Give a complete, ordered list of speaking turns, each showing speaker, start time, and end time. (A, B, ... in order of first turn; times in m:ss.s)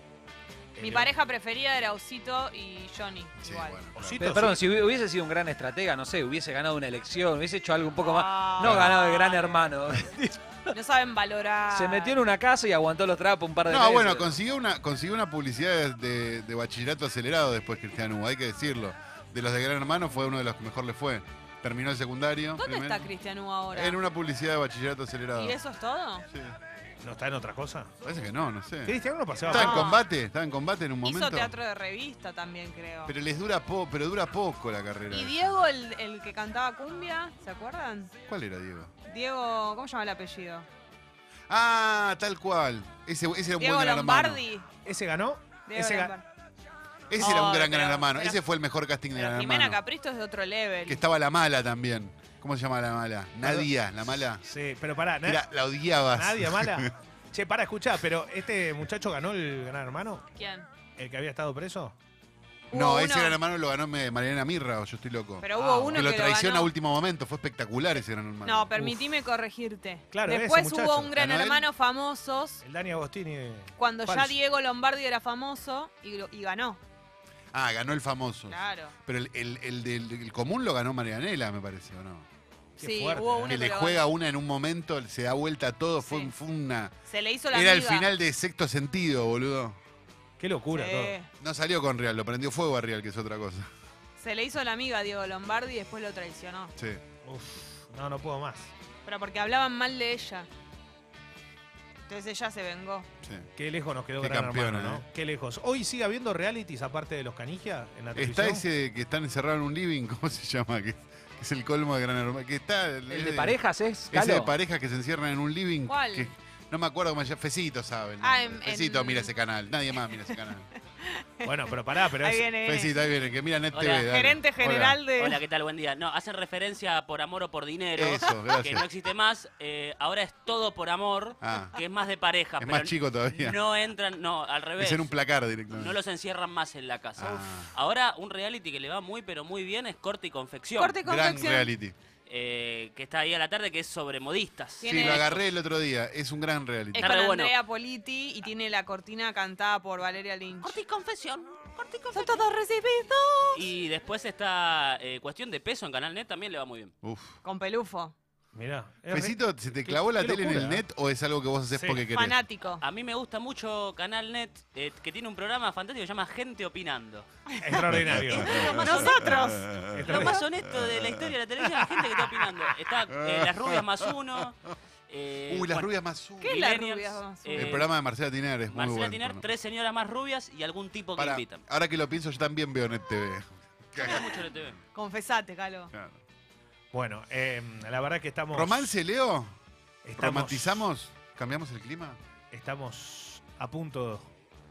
0:00.8-0:01.2 A
0:00.8-0:03.9 B
0:03.4-0:04.3 C
0:04.0-0:04.6 A
0:04.0-0:10.7 D
0:08.0-0:09.7 B
0:08.6-0:09.0 C
0:10.7-0:12.2 B
0:11.7-0:14.4 D
0:13.7-0:23.1 C
0:22.6-0:24.0 B
0:23.7-0:25.6 C
0:25.3-0:26.3 B
0:27.0-0:27.9 A
0:28.0-0:29.0 C
0:28.8-0:29.9 A
0:29.5-0:30.1 B
0:29.5-0:31.6 C
0:31.0-0:33.2 B
0:33.1-0:35.6 C
0:35.1-0:38.1 B
0:38.3-0:38.9 C
0:39.1-0:40.7 B
0:41.5-0:44.4 C
0:43.6-0:44.7 B
0:44.8-0:46.2 A
0:45.7-0:46.2 B
0:47.1-0:49.8 C
0:47.2-0:48.4 B
0:49.1-0:51.0 B
0:50.9-0:54.4 C
0:53.4-0:55.5 A
0:55.2-0:56.9 C
0:56.1-1:00.3 A
1:00.3-1:00.7 B
1:01.0-1:02.0 A
1:02.7-1:03.4 B
1:02.7-1:08.8 C
1:05.4-1:06.7 B
1:05.6-1:06.1 A
1:08.4-1:12.6 B
1:10.1-1:11.7 A
1:12.6-1:14.4 A
1:13.8-1:16.8 B
1:17.5-1:22.3 C
1:18.5-1:18.9 B
1:22.8-1:23.6 A
1:22.8-1:24.1 B
1:23.5-1:26.9 C
1:26.0-1:26.3 B
1:27.1-1:28.1 B
1:27.5-1:29.8 C
1:30.4-1:31.2 A
1:30.7-1:31.3 B
1:31.4-1:33.7 C
1:34.2-1:36.7 B
1:36.8-1:37.0 C
1:37.2-1:38.7 A
1:39.0-1:40.5 B
1:42.1-1:43.1 B
1:43.6-1:48.6 A
1:44.2-1:45.0 C
1:48.1-2:00.7 C
1:53.1-1:54.6 D
1:55.8-1:56.3 B
1:58.2-1:59.3 B
1:59.9-2:00.4 B
2:01.0-2:03.0 B
2:01.4-2:02.5 A
2:02.6-2:05.0 C
2:03.7-2:04.1 E
2:03.9-2:05.4 B
2:05.2-2:21.0 E
2:07.9-2:08.9 C
2:11.4-2:11.8 C
2:12.6-2:13.6 C
2:14.8-2:16.0 C
2:17.2-2:17.8 C
2:20.8-2:21.7 B
2:21.0-2:22.0 C
2:22.3-2:25.6 E
2:24.8-2:25.3 B
2:24.8-2:27.1 C
2:26.9-2:27.6 E
2:27.0-2:30.8 B
2:30.6-2:32.4 E
2:32.1-2:33.7 B
2:33.5-2:36.9 E
2:37.0-2:37.4 C
2:37.4-2:38.1 B
2:38.5-2:40.8 A
2:39.1-2:42.4 C
2:41.7-2:42.1 A
2:42.0-2:42.8 B
2:42.8-2:47.3 E
2:47.6-2:48.8 A
2:47.9-2:51.2 C
2:48.2-2:49.5 E
2:48.5-2:49.7 B
2:49.9-2:50.5 A
2:50.0-2:54.6 E
2:53.1-2:54.5 C
2:55.1-2:57.9 E
2:55.5-2:56.6 C
2:56.4-2:57.9 B
2:57.6-2:59.5 C
2:58.7-3:01.6 E
3:01.2-3:04.7 C
3:04.0-3:04.8 E
3:04.1-3:04.4 B
3:04.9-3:05.9 B
3:05.9-3:06.2 C
3:06.9-3:09.0 A
3:08.5-3:09.6 C
3:10.0-3:10.9 A
3:10.2-3:12.2 C
3:12.5-3:14.3 A